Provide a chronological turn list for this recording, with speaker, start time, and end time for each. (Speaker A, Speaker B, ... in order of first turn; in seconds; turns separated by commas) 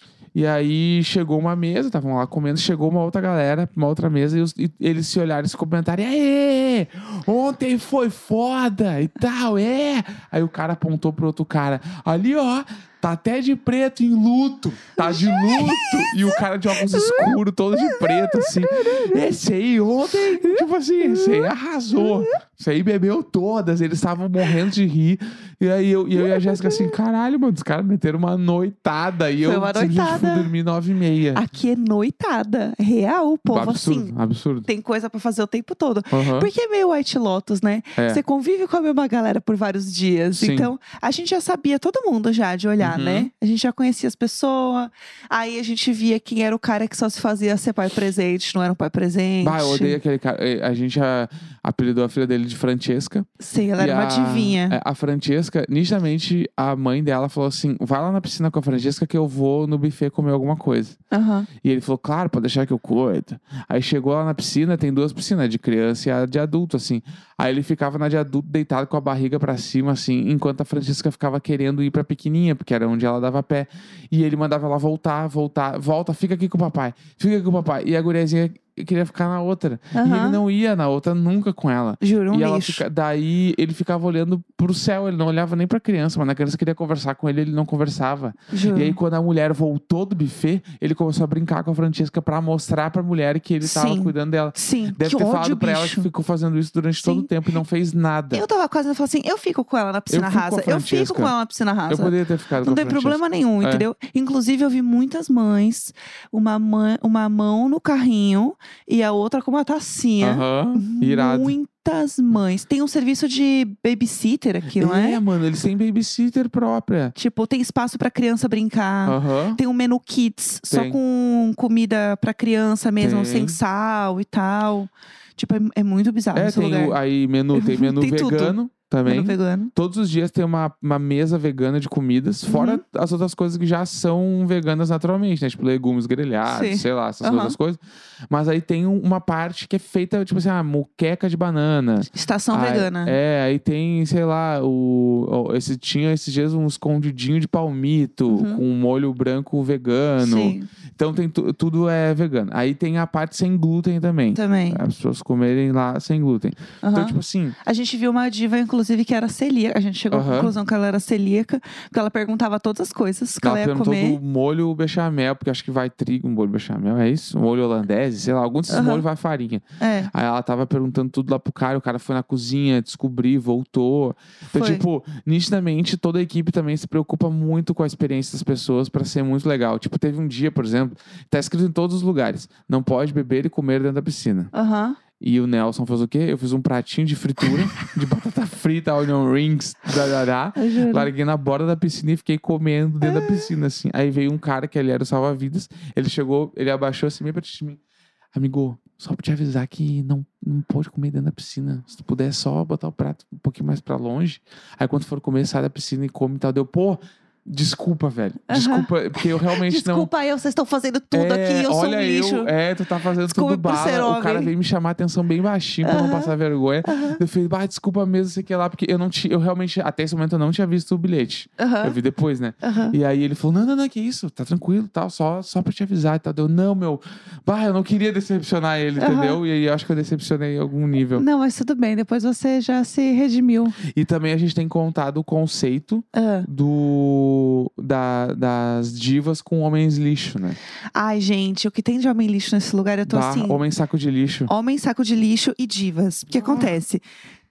Speaker A: 0.3-31.4, Speaker B: 15.0-19.4, Speaker B: 20.1-22.4, Speaker B: 26.1-27.0, Speaker B: 29.4-30.5, Speaker B: 31.3-34.1, Speaker A: 33.5-34.7, Speaker B: 34.7-50.0, Speaker A: 36.1-36.5, Speaker A: 38.0-38.2, Speaker A: 40.3-40.7, Speaker A: 42.8-43.3, Speaker A: 49.4-61.0, Speaker B: 53.4-54.8, Speaker B: 61.1-61.5, Speaker A: 61.6-98.5, Speaker B: 79.9-80.4, Speaker B: 82.0-82.8, Speaker B: 88.5-89.0, Speaker B: 93.6-96.1, Speaker B: 97.0-97.3, Speaker B: 98.3-115.2, Speaker A: 100.1-101.3, Speaker A: 101.9-103.9, Speaker A: 110.2-111.6, Speaker A: 114.8-117.2, Speaker B: 117.2-127.0, Speaker A: 119.0-119.6, Speaker A: 120.7-121.0, Speaker A: 123.0-123.6, Speaker A: 126.3-157.6, Speaker B: 127.5-129.7, Speaker B: 132.5-132.8, Speaker B: 136.5-137.6, Speaker B: 142.1-143.2, Speaker B: 148.3-148.6, Speaker B: 150.2-150.7, Speaker B: 154.3-154.8, Speaker B: 156.8-164.2, Speaker A: 160.1-160.5, Speaker A: 163.4-184.5, Speaker B: 168.7-169.0, Speaker B: 169.8-170.1, Speaker B: 174.5-174.8, Speaker B: 184.5-185.0, Speaker A: 185.2-197.8, Speaker B: 190.6-191.1, Speaker B: 193.0-193.5, Speaker A: 198.3-210.1, Speaker B: 208.5-212.5, Speaker A: 211.1-231.2, Speaker B: 213.2-214.5, Speaker B: 215.8-217.2, Speaker B: 221.6-222.0, Speaker B: 222.6-223.0, Speaker B: 229.0-229.4, Speaker B: 231.2-233.8, Speaker A: 233.8-240.6, Speaker B: 236.1-236.5, Speaker B: 240.9-243.6, Speaker A: 243.1-244.5, Speaker B: 244.5-247.0, Speaker A: 246.5-246.7